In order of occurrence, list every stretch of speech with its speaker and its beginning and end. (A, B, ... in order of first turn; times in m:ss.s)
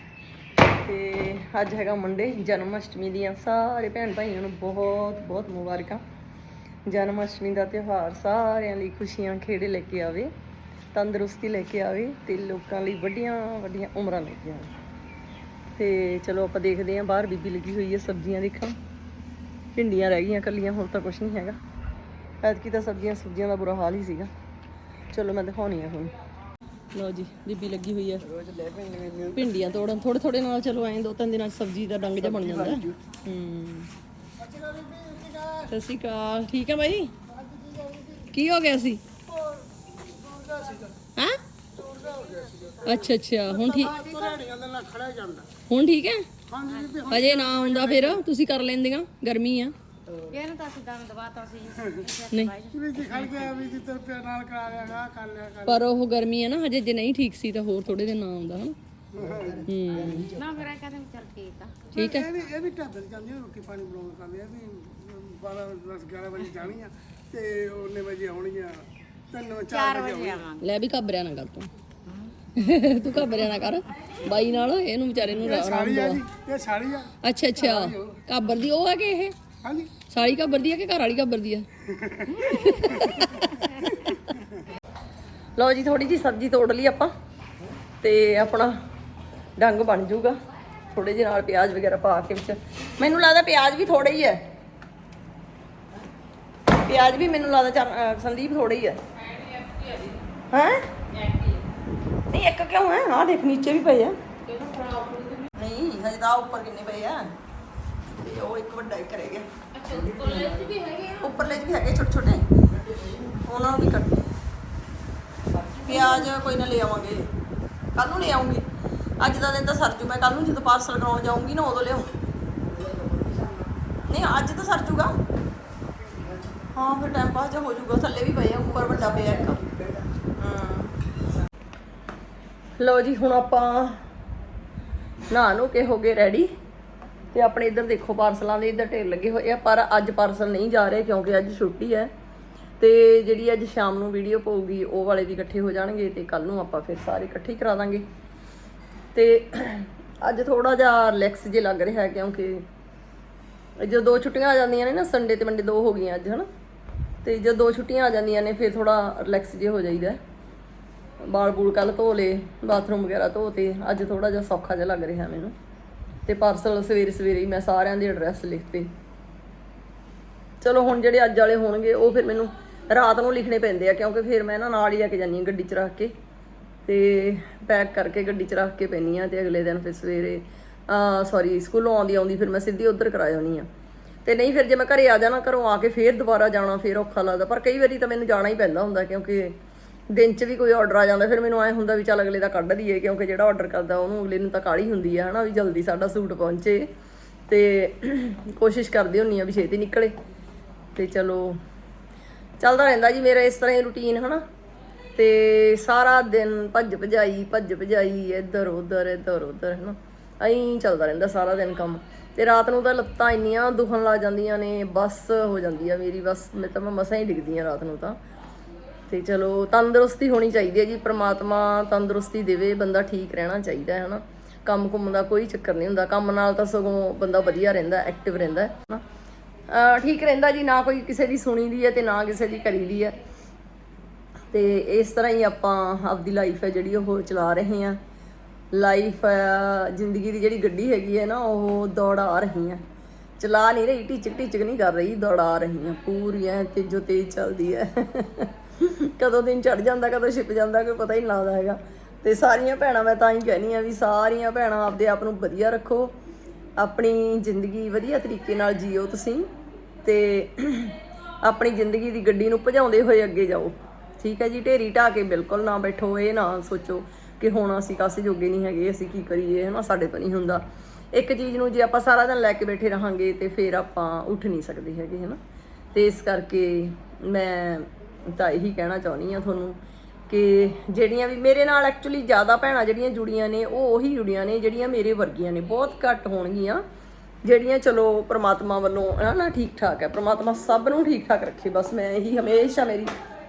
0:00.6-0:06.0 A
0:06.9-0:10.3 A
0:10.9-0:14.7 A
0:15.8-0:18.8 A
0:19.8-0:21.6 A
0:22.4-0:24.3 A
0:25.1-0:26.1 A
0:26.9-0:33.9 A
0:34.6-0:35.6 B
0:35.6-0:37.1 A
0:37.6-0:38.1 B
0:38.3-0:39.0 A
0:40.3-0:40.9 B
0:41.2-0:41.4 A
0:42.0-0:42.5 B
0:42.8-0:44.4 A
0:44.0-0:45.5 B
0:45.7-0:46.3 A
0:46.5-0:47.2 B
0:47.0-0:49.7 A
0:50.2-0:53.4 C
0:52.3-0:52.6 A
0:52.7-0:55.7 B
0:55.6-0:58.8 A
0:59.2-0:59.6 B
0:59.6-1:00.4 A
1:00.2-1:01.9 C
1:02.0-1:02.4 A
1:02.0-1:10.4 B
1:09.7-1:10.6 C
1:10.6-1:11.7 A
1:12.5-1:16.3 A
1:15.6-1:17.2 B
1:17.2-1:19.4 A
1:19.6-1:19.9 B
1:20.0-1:21.7 A
1:22.3-1:24.1 A
1:25.6-1:27.1 A
1:28.0-1:28.8 A
1:29.6-1:30.4 A
1:30.9-1:34.4 A
1:36.7-1:39.0 A
1:39.7-1:40.1 C
1:40.5-1:40.9 A
1:42.3-1:44.2 A
1:44.5-1:45.4 C
1:45.4-1:47.3 A
1:48.1-1:52.5 A
1:49.8-1:50.9 C
1:53.2-1:54.2 A
1:55.7-1:57.3 A
1:58.0-1:58.6 A
1:59.2-2:02.2 A
2:04.1-2:05.2 A
2:06.7-2:11.0 A
2:12.8-2:14.0 A
2:15.3-2:16.5 A
2:17.3-2:22.1 A
2:22.8-2:28.0 A
2:29.1-2:32.6 A
2:33.8-2:36.5 A
2:37.2-2:40.2 A
2:41.2-2:45.5 A
2:46.3-2:48.9 A
2:50.6-2:56.1 A
2:56.9-3:03.7 A
3:04.2-3:09.6 A
3:10.1-3:16.9 A
3:17.5-3:20.1 A
3:21.0-3:21.6 A
3:22.6-3:24.4 A
3:25.2-3:38.2 A
3:39.1-3:49.0 A
3:49.7-3:53.2 A
3:54.5-3:58.0 A
3:58.7-4:02.8 A
4:03.4-4:16.2 A
4:16.8-4:19.5 A
4:20.0-4:35.4 A
4:35.9-4:39.8 A
4:40.3-4:46.8 A
4:47.4-4:53.1 A